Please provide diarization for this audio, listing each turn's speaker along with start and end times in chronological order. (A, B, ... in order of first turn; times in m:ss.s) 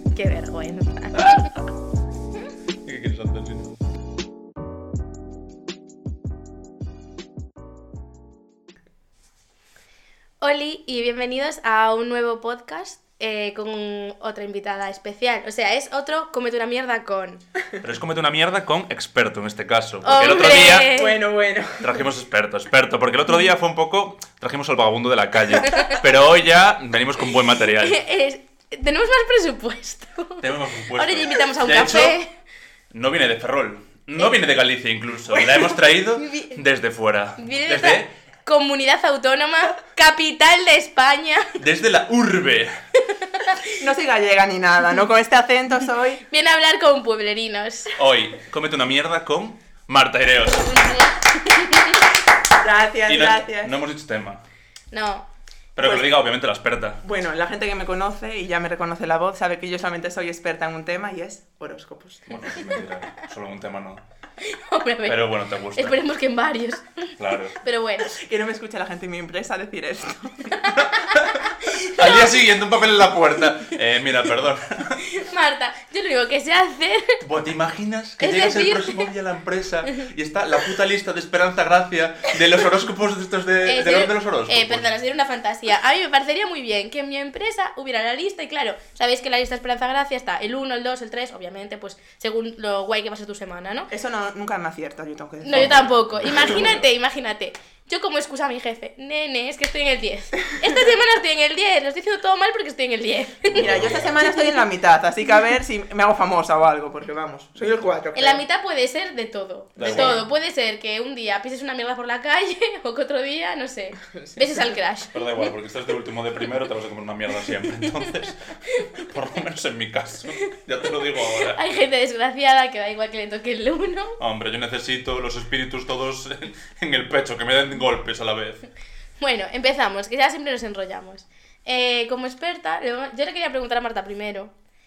0:00.1-0:01.5 A
0:02.8-0:03.8 B
0:10.4-0:17.4 A
0:17.8-0:20.9 B
0:20.0-0:21.2 A
0:20.2-0:22.1 C
0:21.8-0:28.0 B
0:25.6-0:26.0 A
0:27.7-0:32.3 A
0:30.4-0:32.2 B
0:32.9-0:38.1 B
0:36.2-0:36.6 A
0:37.4-0:41.6 A
0:41.6-0:42.7 B
0:43.1-0:43.7 A
0:43.8-0:46.2 C
0:46.3-0:48.0 A
0:48.0-0:51.0 B
0:51.5-0:51.9 A
0:52.5-0:53.8 C
0:53.1-0:54.4 B
0:54.9-0:55.3 A
0:55.8-0:57.0 B
0:55.8-0:56.3 C
0:57.0-1:02.5 C
1:02.3-1:04.0 B
1:02.5-1:02.8 A
1:04.4-1:08.1 A
1:05.1-1:06.0 B
1:07.2-1:07.6 B
1:08.0-1:10.6 C
1:10.5-1:12.3 A
1:10.7-1:15.0 B
1:15.0-1:17.2 A
1:17.2-1:24.9 B
1:18.2-1:19.1 A
1:23.6-1:33.9 A
1:33.9-1:36.7 C
1:35.4-1:43.7 A
1:35.5-1:36.9 B
1:43.5-1:44.1 B
1:43.6-1:48.4 C
1:48.2-1:55.5 A
1:49.8-1:50.2 B
1:49.8-1:50.2 C
1:54.1-1:54.7 C
1:55.1-2:01.6 B
1:58.7-1:59.0 A
2:01.1-2:04.2 A
2:04.2-2:08.6 B
2:09.2-2:14.5 A